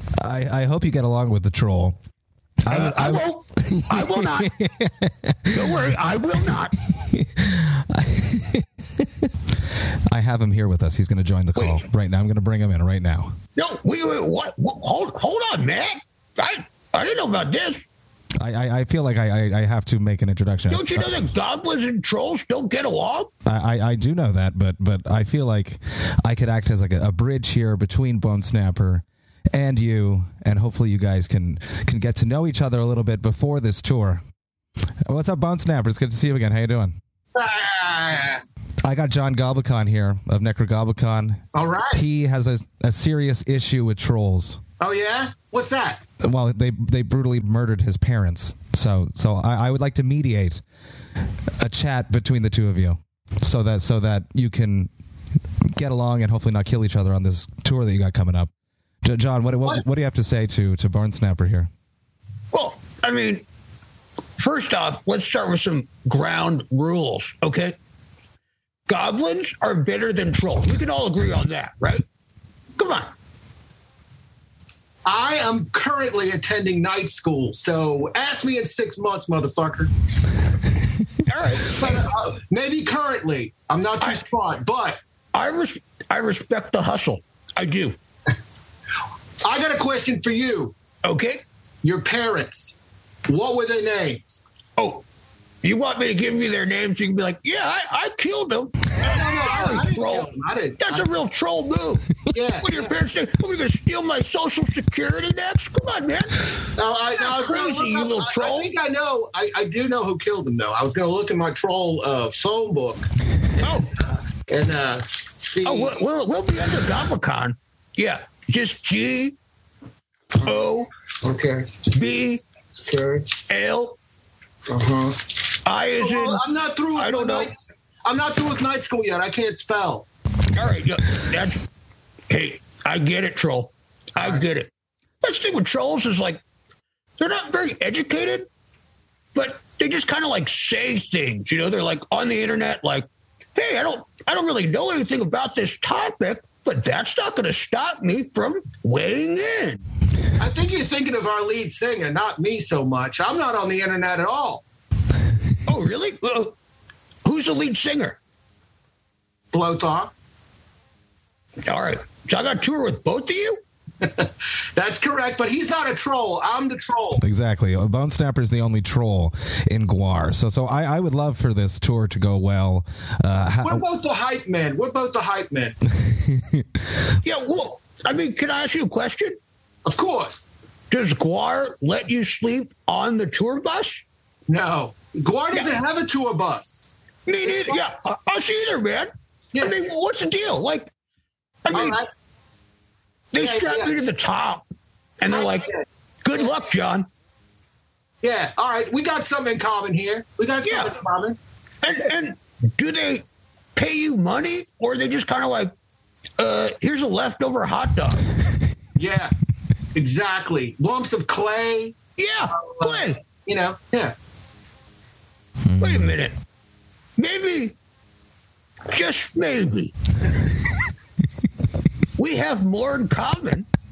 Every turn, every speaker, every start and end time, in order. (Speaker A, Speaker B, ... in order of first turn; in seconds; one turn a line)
Speaker A: 0.1-2.0
Speaker A: 2.6-5.7
Speaker B: 2.7-4.5
Speaker B: 5.5-6.7
Speaker A: 6.9-9.1
Speaker A: 10.1-13.4
Speaker B: 11.6-11.8
Speaker B: 13.6-17.8
Speaker A: 18.4-21.1
Speaker B: 20.7-23.3
Speaker A: 23.4-34.2
Speaker A: 35.0-37.0
Speaker C: 37.4-38.4
Speaker A: 38.8-44.6
Speaker C: 41.5-42.0
Speaker C: 44.8-46.0
Speaker A: 46.2-50.6
Speaker A: 51.6-54.9
Speaker A: 55.7-58.5
Speaker A: 59.0-61.7
Speaker B: 62.5-63.4
Speaker B: 64.4-67.8
Speaker B: 68.9-72.0
Speaker B: 72.8-73.1
Speaker C: 75.0-79.9
Speaker B: 81.3-82.0
Speaker C: 81.6-85.0
Speaker B: 84.0-84.2
Speaker B: 85.3-88.0
Speaker C: 89.4-90.8
Speaker B: 91.0-91.4
Speaker C: 91.8-92.8
Speaker C: 93.3-94.2
Speaker B: 94.8-95.0
Speaker B: 95.6-106.4
Speaker C: 99.0-101.1
Speaker C: 102.3-103.0
Speaker C: 106.8-113.1
Speaker B: 107.1-108.7
Speaker B: 113.6-113.9
Speaker C: 114.5-115.9
Speaker B: 115.6-119.3
Speaker B: 120.4-120.9
Speaker C: 121.3-121.6
Speaker B: 121.9-122.4
Speaker B: 123.5-124.0
Speaker B: 125.7-127.5
Speaker C: 126.0-130.1
Speaker B: 130.6-131.6
Speaker B: 132.3-134.7
Speaker B: 135.2-136.4
Speaker B: 137.2-138.5
Speaker B: 139.3-149.8
Speaker C: 150.4-154.6
Speaker B: 155.7-156.5
Speaker B: 157.2-158.2
Speaker C: 159.5-160.1
Speaker B: 161.7-163.6
Speaker C: 164.0-167.2
Speaker A: 167.2-173.8
Speaker C: 173.6-175.8
Speaker A: 176.1-176.6
Speaker B: 177.2-179.3
Speaker C: 179.9-180.4
Speaker B: 180.9-184.0
Speaker C: 184.5-186.8
Speaker B: 185.5-185.8
Speaker B: 187.3-190.9
Speaker B: 191.6-192.0
Speaker C: 191.7-192.1
Speaker B: 193.3-194.6
Speaker C: 193.4-193.9
Speaker B: 195.2-195.7
Speaker C: 195.3-195.8
Speaker B: 196.2-197.1
Speaker C: 198.2-201.4
Speaker B: 200.6-201.0
Speaker B: 201.8-203.2
Speaker B: 203.8-205.7
Speaker B: 206.4-208.2
Speaker C: 209.0-209.3
Speaker C: 209.9-212.0
Speaker B: 212.2-213.2
Speaker C: 212.5-214.1
Speaker A: 215.6-216.1
Speaker B: 215.8-216.3
Speaker B: 217.2-217.7
Speaker B: 218.9-219.9
Speaker B: 222.2-223.7